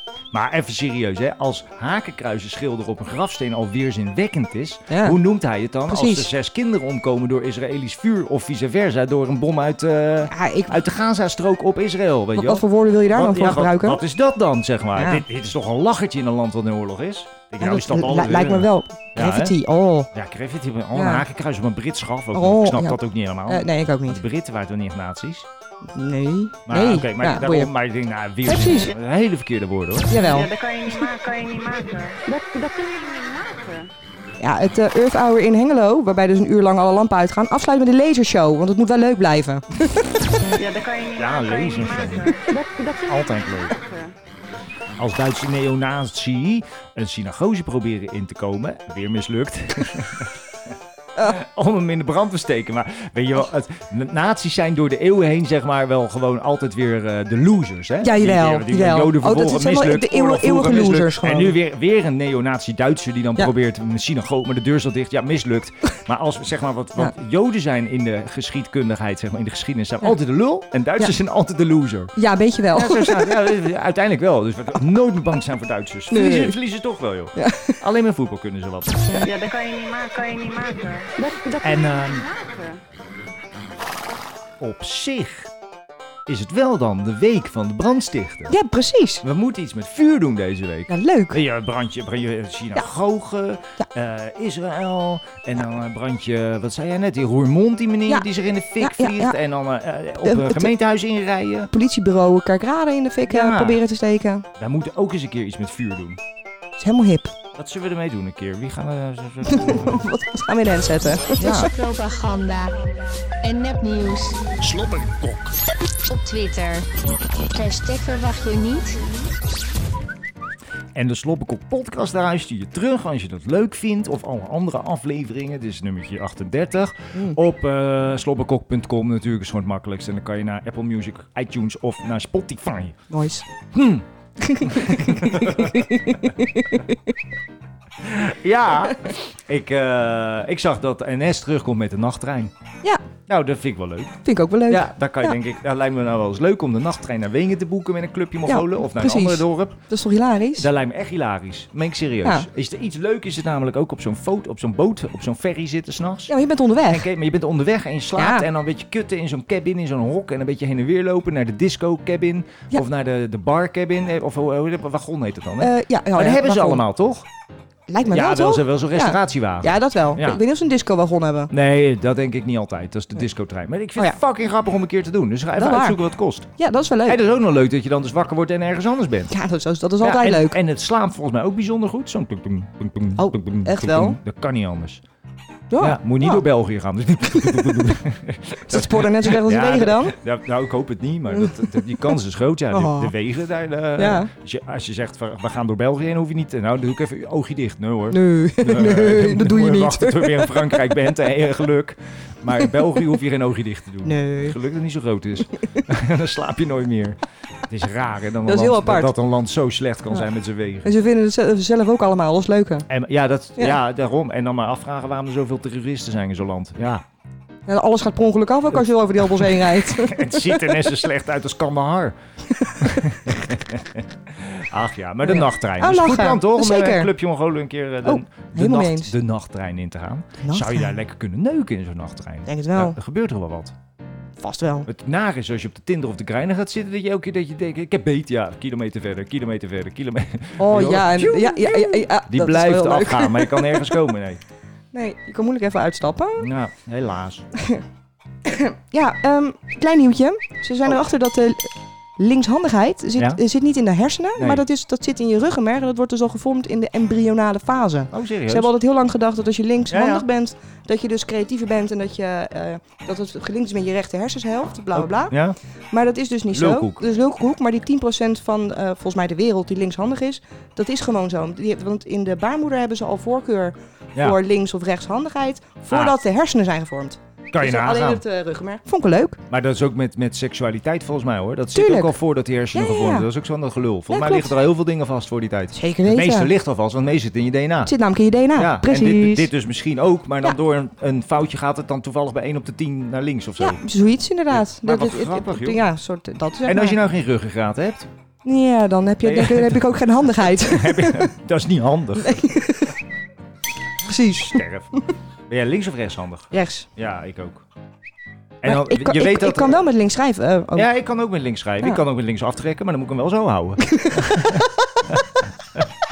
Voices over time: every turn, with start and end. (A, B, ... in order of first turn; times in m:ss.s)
0:00.3-0:19.6 A
0:04.9-0:05.2 B
0:05.9-0:06.3 B
0:10.3-0:10.8 B
0:12.4-0:14.0 B
0:15.0-0:15.2 B
0:17.6-0:20.1 B
0:20.1-0:25.5 A
0:21.0-0:21.2 B
0:22.3-0:24.2 B
0:25.9-0:27.7 B
0:26.7-0:30.2 A
0:28.4-0:28.9 B
0:30.1-0:30.5 B
0:30.2-0:33.9 C
0:34.4-0:40.1 B
0:40.5-0:44.1 C
0:41.2-0:42.4 A
0:43.0-0:43.8 A
0:45.0-0:50.3 A
0:51.2-1:12.1 A
0:58.0-1:01.6 B
1:12.2-1:13.3 B
1:12.7-1:19.2 A
1:16.1-1:16.6 B
1:17.4-1:17.8 B
1:19.2-1:22.8 C
1:21.6-1:22.3 A
1:24.6-1:25.5 A
1:26.3-1:28.6 A
1:28.5-1:29.2 B
1:29.2-1:41.7 A
1:30.9-1:31.4 B
1:38.8-1:39.4 B
1:40.2-1:40.7 B
1:41.7-1:44.5 B
1:43.3-1:43.8 A
1:44.6-1:46.2 A
1:46.8-1:47.3 B
1:47.6-1:50.0 A
1:49.5-1:51.6 B
1:51.4-1:51.7 A
1:51.5-1:52.8 D
1:53.4-1:54.6 D
1:56.1-1:56.9 D
1:57.4-1:59.0 D
2:01.0-2:13.0 A
2:13.1-2:13.5 B
2:13.7-2:14.1 A
2:14.4-2:16.9 B
2:14.6-2:15.9 A
2:18.0-2:22.5 A
2:23.3-2:24.2 A
2:24.2-2:25.3 B
2:24.7-2:29.8 A
2:28.5-2:30.7 B
2:30.6-2:36.3 A
2:36.3-2:37.1 B
2:36.8-2:47.3 A
2:38.2-2:38.5 B
2:45.6-2:46.8 B
2:47.9-2:51.5 B
2:48.1-2:50.4 A
2:51.5-2:56.5 A
2:55.6-2:56.0 B
2:56.6-2:57.2 B
2:57.1-2:59.3 A
2:59.3-3:00.6 B
3:00.0-3:05.0 A
3:03.2-3:04.2 B
3:05.7-3:06.4 B
3:05.8-3:30.9 A
3:08.7-3:10.2 B
3:12.7-3:13.1 B
3:14.0-3:14.3 B
3:18.1-3:20.7 B
3:24.0-3:24.6 B
3:28.5-3:29.1 B
3:30.8-3:32.9 B
3:32.9-3:37.0 A
3:37.7-3:40.7 B
3:39.4-3:42.2 A
3:42.8-3:53.8 A
3:45.2-3:47.1 B
3:48.0-3:49.1 B
3:50.4-3:50.9 B
3:52.5-3:53.0 B
3:54.4-3:54.9 B
3:54.9-4:04.4 A
4:00.6-4:04.0 B
4:04.9-4:06.5 B
4:06.4-4:07.5 A
4:08.5-4:25.4 B
4:14.4-4:14.6 A
4:18.1-4:18.7 A
4:19.9-4:20.3 A
4:24.9-4:25.6 A
4:25.9-4:39.4 B
4:26.5-4:27.0 A
4:35.9-4:36.2 A
4:37.5-4:38.2 A
4:39.5-4:47.9 A
4:41.7-4:42.2 B
4:42.7-4:43.3 B
4:44.1-4:44.5 B
4:45.8-4:46.5 B
4:47.8-4:49.5 B
4:48.5-4:53.9 A
4:53.6-4:57.0 B
4:54.5-4:55.8 A
4:56.6-4:58.1 A
4:58.4-5:01.3 B
4:59.2-4:59.9 A
5:00.4-5:02.6 A
5:02.2-5:03.0 B
5:04.0-5:04.6 B
5:04.4-5:05.0 A
5:05.5-5:07.6 A
5:06.5-5:06.9 B
5:08.6-5:09.8 A
5:08.6-5:10.9 B
5:10.8-5:15.9 A
5:13.9-5:14.6 B